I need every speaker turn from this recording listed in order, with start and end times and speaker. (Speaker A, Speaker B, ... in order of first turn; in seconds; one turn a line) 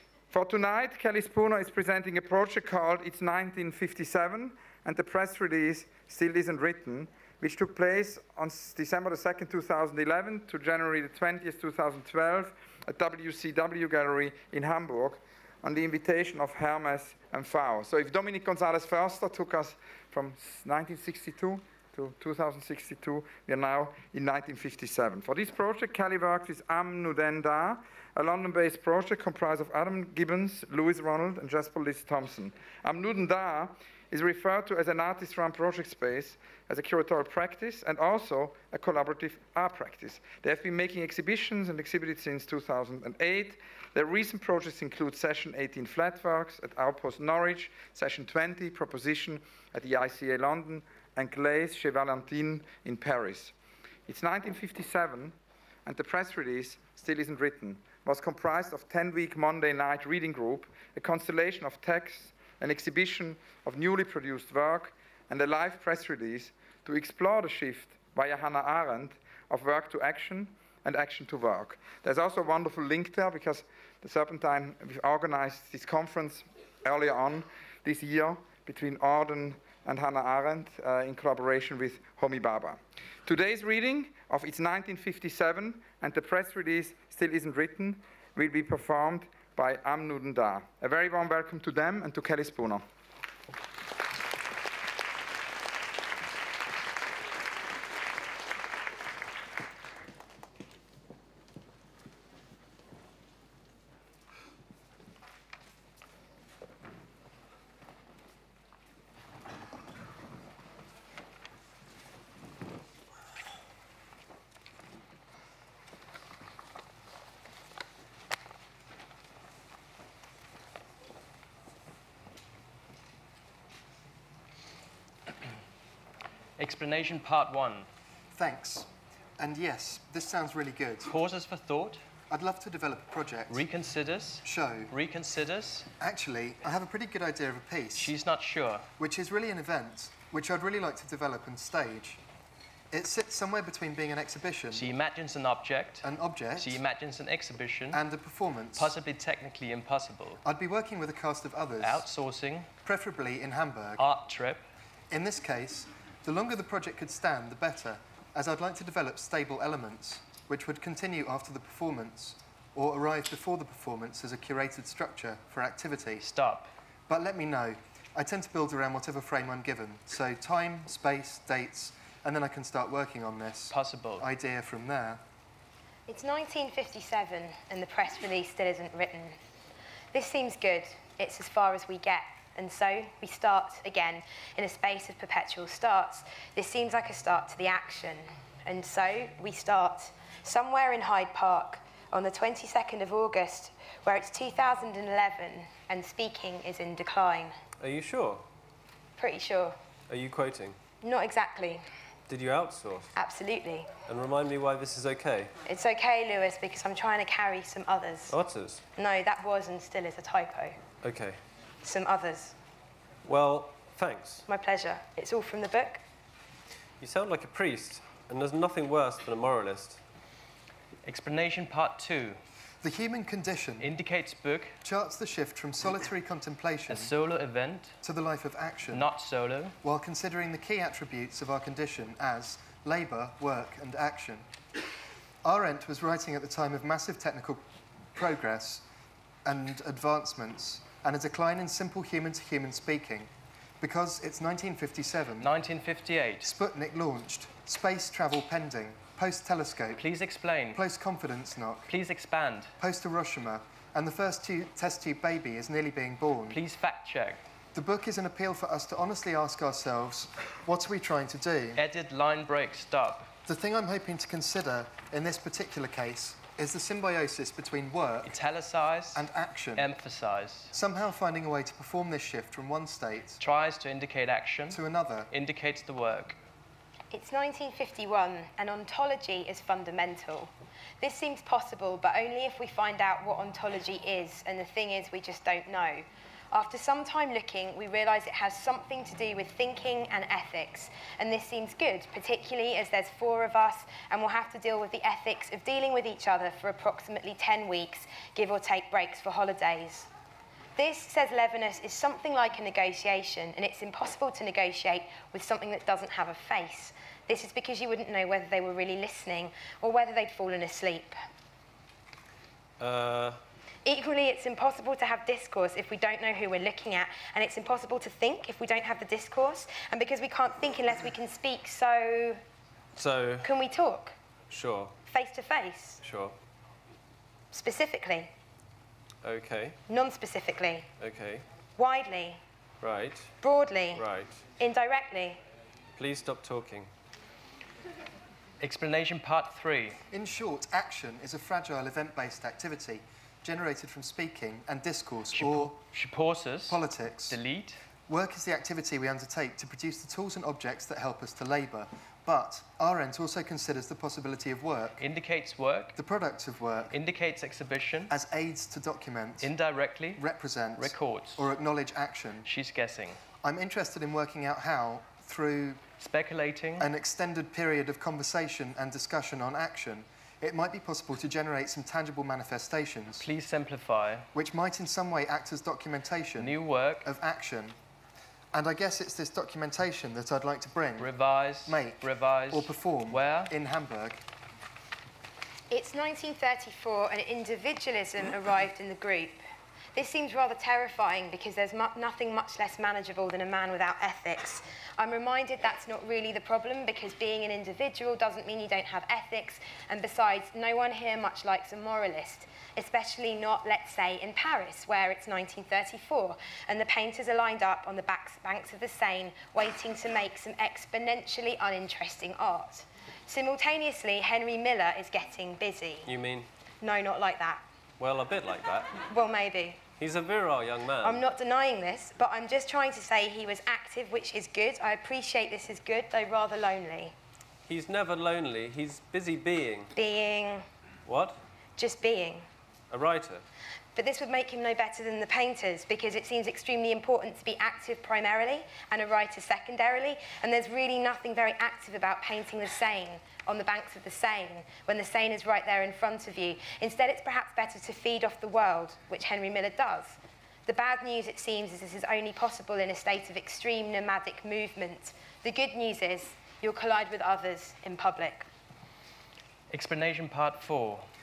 Speaker A: 0.3-53.5
Speaker A: 54.1-55.4
Speaker A: 55.9-92.8
Speaker B: 126.6-127.9
Speaker C: 128.3-131.1
Speaker B: 131.1-132.0
Speaker C: 132.3-133.6
Speaker B: 133.5-135.9
Speaker C: 134.4-134.9
Speaker C: 136.0-138.1
Speaker B: 138.0-138.9
Speaker C: 139.0-142.2
Speaker C: 142.9-144.9
Speaker B: 144.7-148.0
Speaker C: 146.0-146.8
Speaker C: 147.9-148.9
Speaker B: 148.8-150.4
Speaker C: 150.4-152.1
Speaker B: 151.8-152.7
Speaker C: 152.8-154.1
Speaker B: 154.0-154.7
Speaker C: 155.1-166.2
Speaker B: 166.2-166.7
Speaker C: 167.1-175.2
Speaker B: 173.7-174.3
Speaker D: 176.1-179.4
Speaker D: 180.1-197.6
Speaker E: 197.8-198.4
Speaker D: 199.2-199.8
Speaker E: 200.1-200.8
Speaker D: 201.0-201.8
Speaker E: 202.3-203.1
Speaker D: 203.2-203.9
Speaker E: 204.1-205.5
Speaker D: 205.7-208.4
Speaker E: 208.3-208.8
Speaker D: 208.9-210.8
Speaker E: 211.0-211.4
Speaker D: 211.8-212.6
Speaker E: 213.2-214.4
Speaker D: 214.5-216.0
Speaker E: 217.0-220.0
Speaker B: 221.1-222.4
Speaker C: 222.8-223.9
Speaker B: 223.8-224.8
Speaker C: 224.8-227.1
Speaker B: 226.9-228.0
Speaker C: 228.0-229.1
Speaker B: 228.9-229.8
Speaker C: 229.8-234.5
Speaker C: 235.4-237.6
Speaker C: 238.1-238.8
Speaker C: 239.4-243.3
Speaker C: 243.8-245.5
Speaker B: 245.4-246.5
Speaker C: 246.4-250.0
Speaker B: 250.0-250.8
Speaker C: 250.7-251.9
Speaker B: 251.9-252.7
Speaker C: 252.8-256.6
Speaker B: 256.5-257.4
Speaker C: 257.7-261.8
Speaker B: 261.8-263.3
Speaker C: 263.5-268.3
Speaker B: 268.2-269.2
Speaker C: 269.1-269.9
Speaker B: 269.8-270.7
Speaker C: 270.7-273.4
Speaker B: 273.4-276.4
Speaker C: 274.7-275.3
Speaker D: 277.1-300.1
Speaker D: 300.8-311.1
Speaker E: 312.8-313.4
Speaker D: 313.9-322.4
Speaker E: 322.9-323.5
Speaker D: 323.4-324.1
Speaker E: 324.5-324.9
Speaker D: 325.1-326.0
Speaker E: 326.0-326.4
Speaker D: 327.5-328.3
Speaker E: 329.2-329.8
Speaker D: 329.9-330.9
Speaker E: 331.0-331.4
Speaker D: 331.8-332.4
Speaker E: 332.8-333.3
Speaker D: 333.4-334.0
Speaker E: 333.9-334.4
Speaker D: 334.6-335.4
Speaker E: 336.0-336.9
Speaker B: 338.6-340.0
Speaker C: 340.1-345.8
Speaker B: 345.3-347.8
Speaker C: 346.7-347.4
Speaker C: 348.1-355.0
Speaker B: 355.0-356.0
Speaker C: 356.0-356.9
Speaker B: 356.9-358.1
Speaker C: 358.1-359.5
Speaker B: 359.4-360.2
Speaker C: 360.2-362.5
Speaker B: 360.8-361.5
Speaker B: 362.4-363.2
Speaker C: 363.4-365.8
Speaker B: 366.0-366.9
Speaker C: 366.8-373.3
Speaker B: 373.2-374.3
Speaker C: 374.3-377.8
Speaker B: 376.4-377.1
Speaker C: 378.5-381.1
Speaker B: 381.0-383.5
Speaker C: 381.7-384.2
Speaker D: 385.7-389.4
Speaker D: 389.9-416.1
Speaker E: 416.1-416.5
Speaker D: 416.8-417.6
Speaker E: 418.0-418.9
Speaker D: 419.0-419.8
Speaker E: 420.0-421.3
Speaker D: 421.0-427.1
Speaker E: 427.7-429.9
Speaker D: 429.9-430.6
Speaker E: 431.1-431.4
Speaker D: 431.8-432.4
Speaker E: 432.9-433.4
Speaker D: 433.9-458.5
Speaker B: 459.7-461.1